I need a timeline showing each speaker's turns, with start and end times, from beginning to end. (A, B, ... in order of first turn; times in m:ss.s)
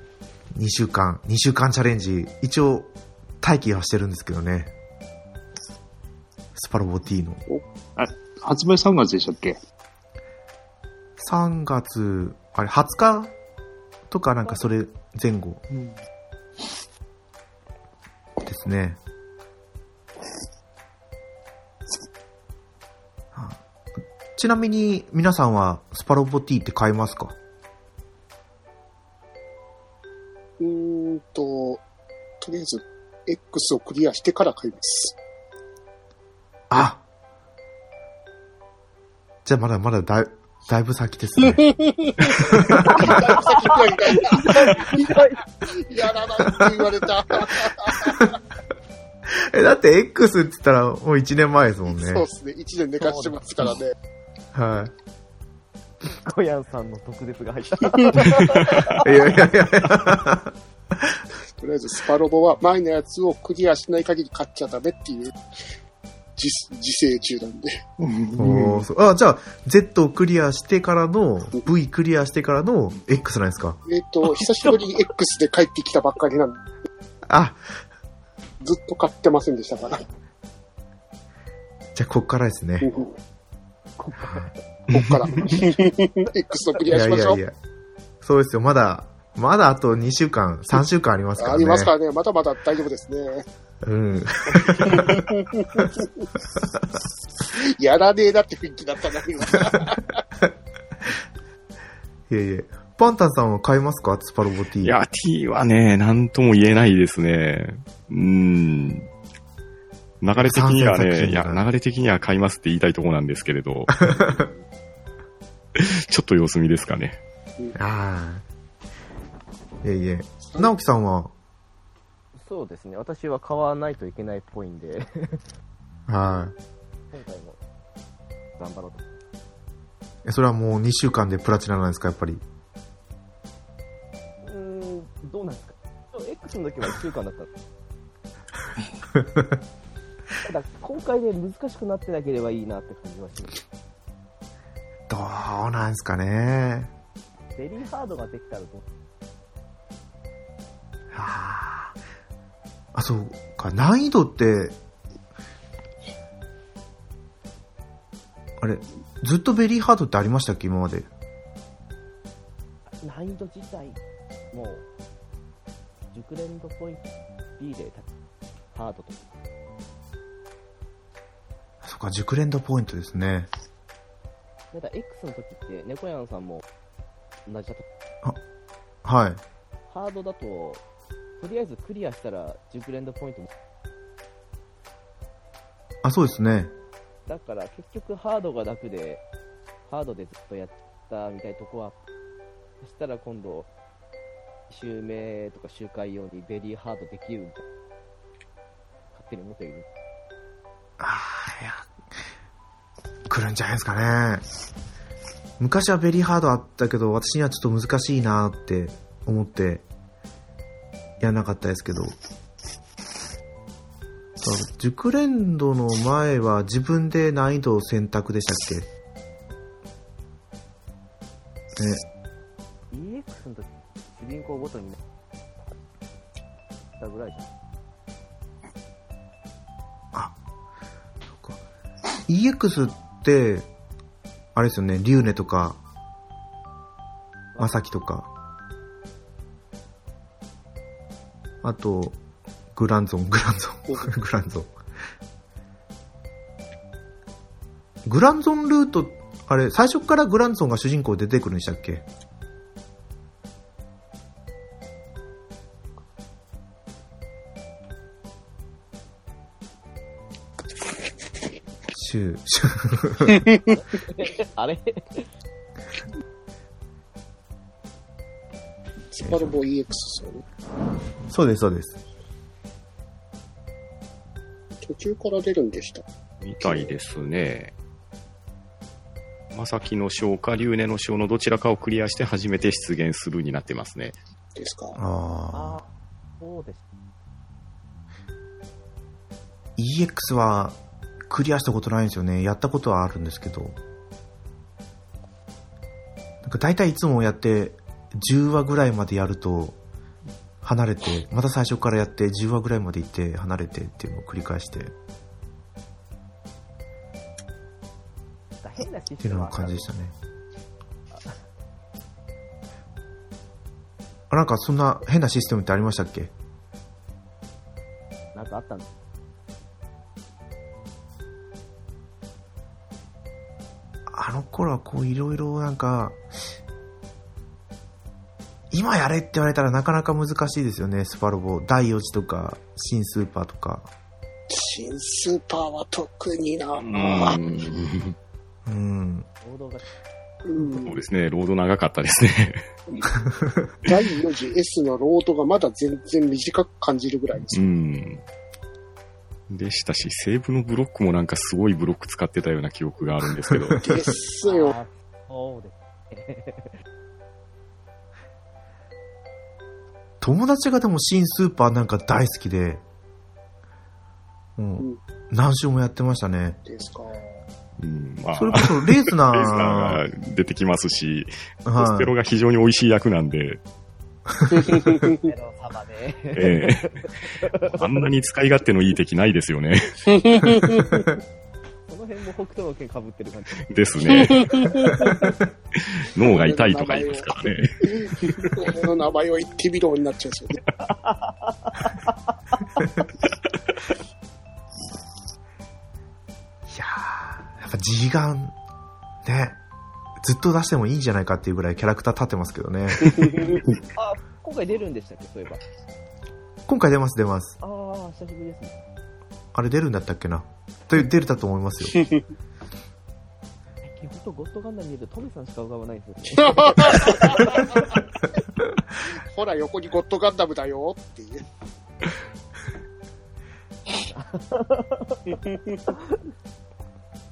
0:00.5-0:04.7 A
0:06.6-0:07.4 A
0:08.0-0:09.6 B
0:11.2-0:13.3 A
0:14.1-0:15.6 A
0:15.7-0:16.0 B
0:18.4-0:19.0 A
0:23.3-0:23.6 A
0:24.4-0:27.4 A
0:30.6-0:31.8 C
0:32.4-0:35.2 C
0:36.7-0:37.0 A
0:39.4-0:43.3 A
0:41.5-0:48.3 C
0:42.7-0:45.4 D
0:46.4-0:46.9 A
0:47.9-0:48.4 A
0:49.3-0:52.3 A
0:51.9-0:54.0 C
0:53.0-0:53.4 D
0:54.5-0:54.9 A
0:56.0-0:59.4 D
0:58.6-1:01.2 A
1:01.6-1:05.4 C
1:06.4-1:07.8 C
1:08.0-1:08.9 B
1:08.4-1:13.8 A
1:13.9-1:16.7 C
1:17.3-1:17.6 A
1:18.6-1:20.0 C
1:22.0-1:22.9 A
1:22.8-1:23.1 C
1:24.0-1:24.6 D
1:24.2-1:24.5 A
1:24.9-1:27.4 C
1:25.0-1:25.5 E
1:26.9-1:27.6 A
1:28.2-1:31.9 A
1:31.4-1:33.4 C
1:33.8-1:35.3 A
1:34.7-1:36.3 C
1:36.6-1:36.8 A
1:37.4-1:40.2 C
1:42.3-1:45.0 A
1:44.8-1:49.1 E
1:50.2-1:54.1 E
1:50.4-1:51.6 A
1:54.1-1:54.5 A
1:55.8-1:57.2 E
1:57.8-1:58.4 A
1:59.8-2:01.3 A
2:02.4-2:05.4 D
2:06.1-2:06.6 A
2:07.1-2:07.6 D
2:08.6-2:09.0 D
2:10.2-2:12.4 A
2:14.4-2:17.5 D
2:19.2-2:19.4 A
2:20.4-2:23.6 D
2:25.1-2:26.9 A
2:27.6-2:28.8 D
2:31.1-2:32.0 A
2:32.9-2:34.8 A
2:38.6-2:41.1 A
2:43.0-2:44.0 D
2:44.5-2:44.8 D
2:46.1-2:48.1 D
2:48.7-2:49.2 D
2:51.8-2:53.5 A
2:54.7-2:56.6 D
2:57.5-2:57.8 D
2:59.0-2:59.4 A
2:59.9-3:00.8 D
3:01.4-3:03.5 D
3:06.0-3:06.7 A
3:07.3-3:09.2 D
3:09.9-3:12.0 D
3:12.8-3:13.7 D
3:14.7-3:17.6 D
3:19.1-3:19.9 D
3:21.0-3:21.9 A
3:23.3-3:24.4 A
3:25.6-3:29.8 A
3:31.2-3:32.1 A
3:34.4-3:38.9 A
3:41.8-3:42.0 A
3:42.9-3:45.0 D
3:47.0-3:47.5 D
3:52.3-3:53.7 A
3:54.6-3:55.8 A
3:57.5-3:57.8 D
3:57.6-3:58.3 A
4:01.6-4:02.2 A
4:02.7-4:04.7 A
4:08.1-4:12.0 A
4:21.9-4:23.4 A
4:23.7-4:25.3 D
4:29.1-4:30.4 C
4:29.2-4:29.5 A
4:31.3-4:32.0 A
4:34.8-4:36.0 C
4:36.4-4:37.7 E
4:36.6-4:36.9 C
4:39.5-4:44.2 E
4:44.6-4:45.0 C
4:45.0-4:45.9 A
4:45.5-4:45.9 D
4:46.4-4:46.8 D
4:49.8-4:50.8 A
4:51.3-4:53.8 A
4:56.4-4:59.8 A
5:00.6-5:04.9 A
5:08.6-5:09.9 D
5:09.2-5:10.1 A
5:11.1-5:11.4 D
5:14.3-5:16.3 A
5:18.3-5:18.8 D
5:24.1-5:26.2 A
5:28.7-5:33.9 A
5:34.5-5:37.4 C
5:36.8-5:38.2 E
5:38.7-5:39.3 A
5:39.4-5:39.9 D
5:40.4-5:41.0 C
5:40.8-5:42.6 E
5:43.8-5:47.7 C
5:47.5-5:48.2 E
5:49.5-5:53.8 E
5:53.4-5:54.1 A
5:53.8-5:54.8 C
5:54.4-5:56.8 D
6:00.2-6:02.8 A
6:04.6-6:06.6 A
6:06.7-6:07.4 C
6:07.8-6:13.6 E
6:08.4-6:10.0 A
6:11.7-6:12.1 A
6:14.5-6:15.3 C
6:15.2-6:18.0 D
6:16.4-6:16.9 E
6:17.6-6:20.7 E
6:20.1-6:21.1 C
6:21.9-6:24.3 D
6:23.7-6:25.2 E
6:24.1-6:25.3 C
6:25.8-6:27.8 E
6:26.2-6:27.3 C
6:27.8-6:30.6 C
6:30.8-6:32.8 D
6:36.7-6:38.6 A
6:39.2-6:39.6 A
6:40.2-6:43.3 A
6:43.0-6:43.6 C
6:44.0-6:45.6 D
6:46.7-6:47.6 A
6:47.6-6:48.7 D
6:49.5-6:52.0 A
6:53.8-6:57.9 D
6:56.3-6:58.0 C
6:59.0-7:01.4 C
7:04.1-7:05.4 D
7:05.3-7:05.8 C
7:05.9-7:06.2 D